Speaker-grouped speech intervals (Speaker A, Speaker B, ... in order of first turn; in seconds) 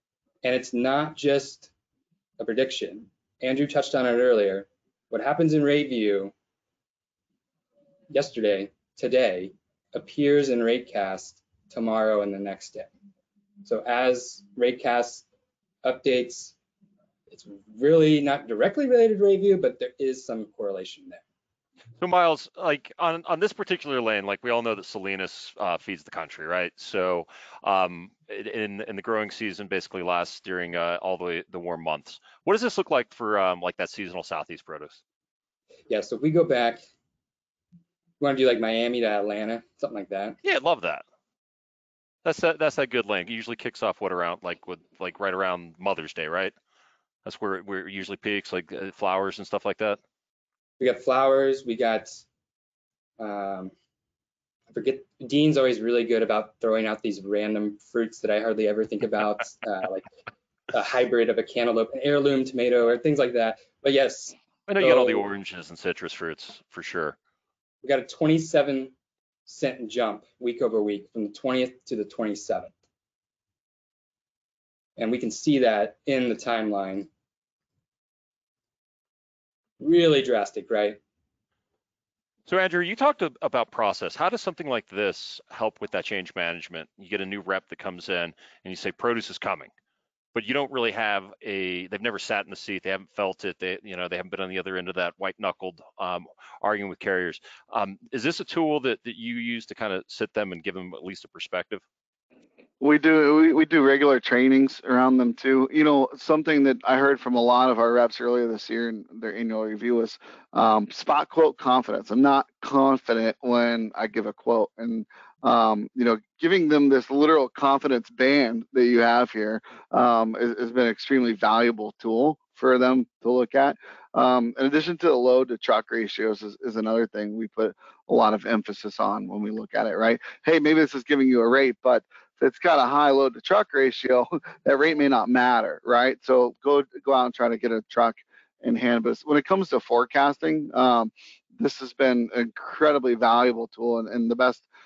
Speaker A: 0.4-1.7, 2.4-6.3, 8.1-12.9, 13.6-15.2, 15.8-16.5, 17.3-21.2, 35.9-36.8, 38.2-40.4, 50.8-52.2, 53.2-53.7, 54.7-60.1, 60.7-65.2, 67.8-68.9, 69.5-72.7, 75.0-77.1, 79.8-81.0
Speaker B: 22.0-35.0, 40.4-41.0, 42.2-46.5, 47.2-50.0, 64.7-67.2, 82.5-89.7, 90.3-101.8
Speaker C: 102.8-144.7